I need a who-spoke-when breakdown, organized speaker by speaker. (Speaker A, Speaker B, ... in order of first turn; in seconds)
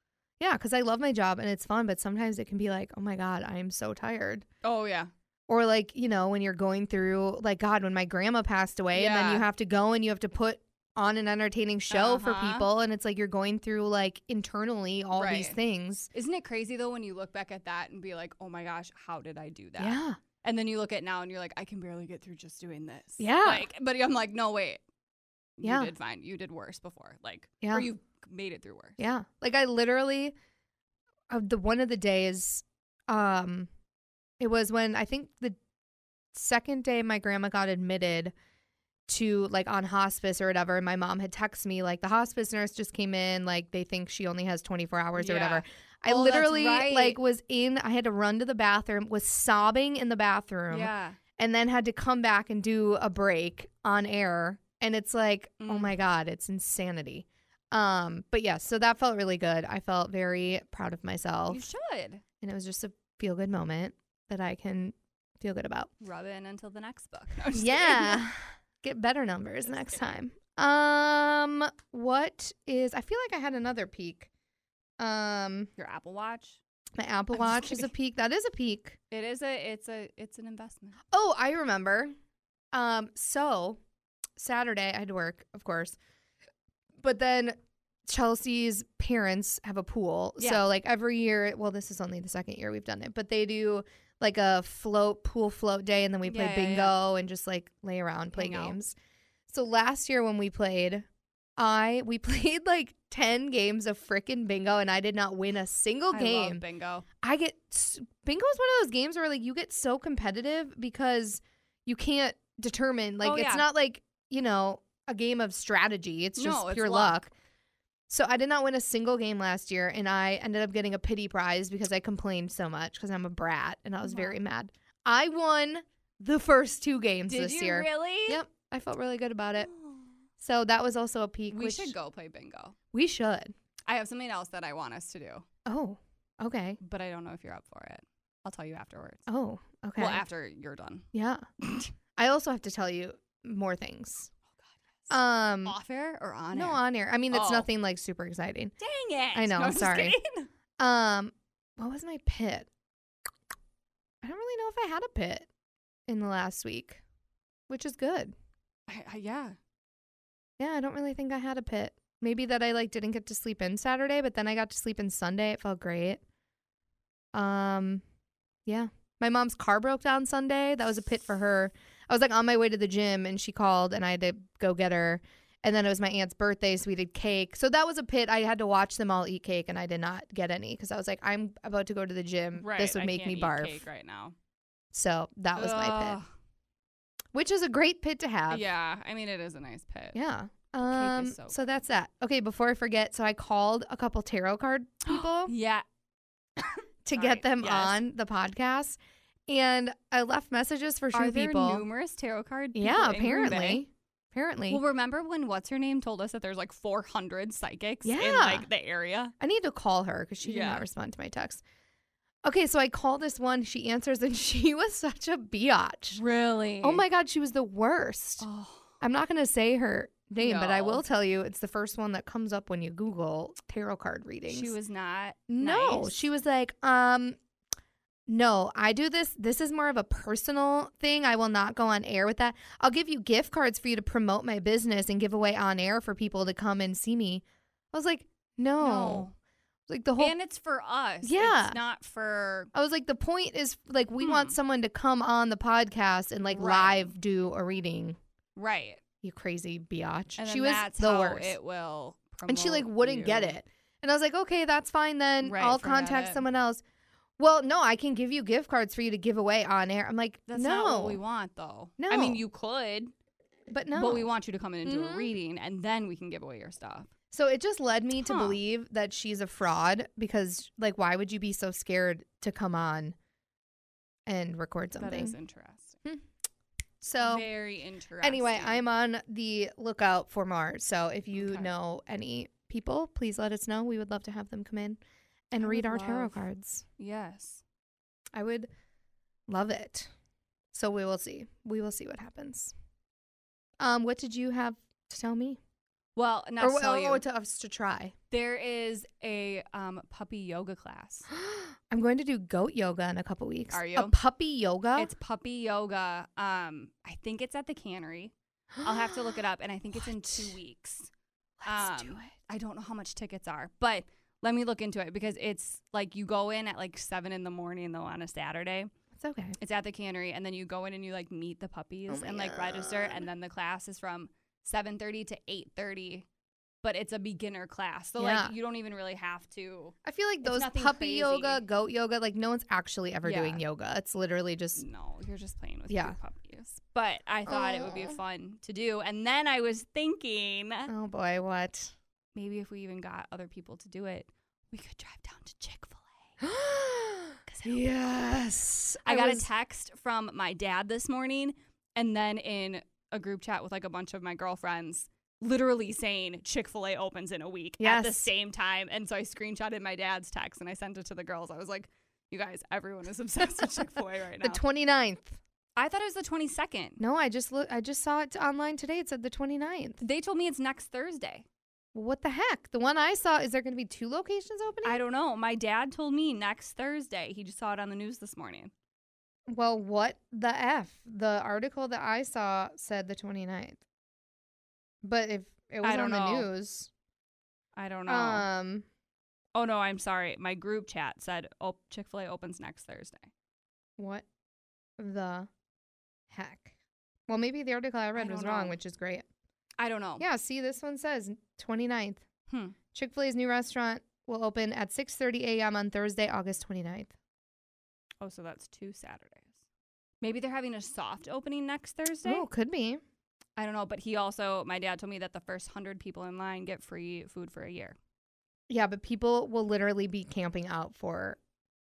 Speaker A: 0.4-4.5, 5.5-16.1, 19.8-20.2, 23.2-23.7, 25.6-25.9, 27.6-27.9, 29.0-30.4, 31.3-33.7, 34.4-35.6, 36.3-38.3, 39.1-61.7, 62.4-65.9, 67.5-74.3, 75.0-75.7, 77.0-79.0, 81.1-82.1, 82.7-83.8, 84.4-86.0, 87.0-99.0, 99.5-101.1, 101.6-106.6, 107.2-117.3, 118.1-129.7, 130.4-131.9, 132.9-133.5, 135.7-136.8, 139.3-140.2, 141.1-141.5, 142.2-144.3, 145.1-145.8, 146.5-148.7, 149.3-150.2, 150.8-152.7, 154.2-155.5, 156.1-157.0, 157.7-158.3, 160.6-166.2, 167.3-168.0, 168.7-183.8, 184.9-186.2, 187.3-188.7, 190.1-195.5, 197.1-201.8, 202.7-204.8, 208.0-208.7, 209.4-211.6, 212.4-216.2, 216.8-218.5, 219.0-224.8, 225.5-227.4, 228.3-239.3, 239.9-240.3, 241.2-241.8, 242.7-248.2, 249.2-251.6, 252.5-256.8, 257.4-261.2, 262.0-262.4, 263.7-264.3, 264.9-265.3, 267.3-273.1, 274.3-275.4, 277.0-277.4, 278.2-286.8, 288.3-288.7, 289.5-290.1, 290.7-292.7, 293.8-295.6, 296.6-298.1, 301.3-305.1, 308.8-309.4, 310.0-310.6, 311.6-312.3, 319.1-319.6, 322.1-323.2, 328.2-328.5, 330.0-334.8, 335.9-336.2, 337.5-338.2, 340.9-341.9, 346.4-349.5, 357.8-358.3, 364.4-365.4, 367.0-370.0, 371.9-375.0, 379.5-383.8, 385.0-386.9, 388.1-388.9, 394.0-394.2, 395.0-395.5, 396.3-396.7, 397.3-399.3, 400.2-402.2, 402.9-407.1, 412.2-413.0, 418.7-421.4
Speaker B: 4.6-5.1, 8.9-9.5, 11.9-12.7, 15.1-15.6, 16.1-24.8, 25.6-29.0, 45.2-47.2, 50.7-51.2, 55.6-56.0, 61.5-62.2, 66.0-68.2, 69.7-70.0, 75.8-76.6, 77.3-77.9, 79.1-81.0, 90.4-90.6, 96.2-97.0, 98.3-98.8, 106.1-107.1, 113.2-113.7, 116.4-117.2, 124.0-124.4, 127.3-128.4, 129.6-130.1, 131.5-132.8, 133.9-135.5, 136.8-139.2, 140.0-141.1, 141.6-141.9, 144.6-145.1, 145.7-147.7, 148.8-150.5, 158.9-159.6, 182.6-184.3, 185.5-186.3, 188.5-190.2, 190.8-191.7, 195.1-195.8, 196.6-198.0, 201.1-203.8, 204.7-209.3, 210.4-210.8, 216.1-217.0, 218.4-219.0, 220.4-221.0, 224.5-226.2, 238.8-239.3, 240.2-242.7, 244.2-244.6, 246.5-247.1, 248.6-249.0, 250.4-253.6, 255.4-256.4, 260.5-263.1, 263.9-267.1, 268.2-268.6, 275.0-276.0, 277.2-278.8, 281.3-281.7, 285.6-286.4, 287.0-287.6, 296.2-297.2, 298.3-301.3, 303.7-304.2, 305.0-311.1, 311.6-318.9, 319.6-326.3, 326.8-331.6, 333.2-333.6, 334.8-340.9, 342.4-346.3, 347.5-347.8, 349.1-364.6, 365.8-367.0, 370.0-371.5, 374.9-378.7, 385.8-386.5, 387.8-388.5, 389.6-393.3, 398.1-398.8, 399.8-400.3, 402.5-402.8, 408.2-409.6, 410.2-412.5, 413.6-418.0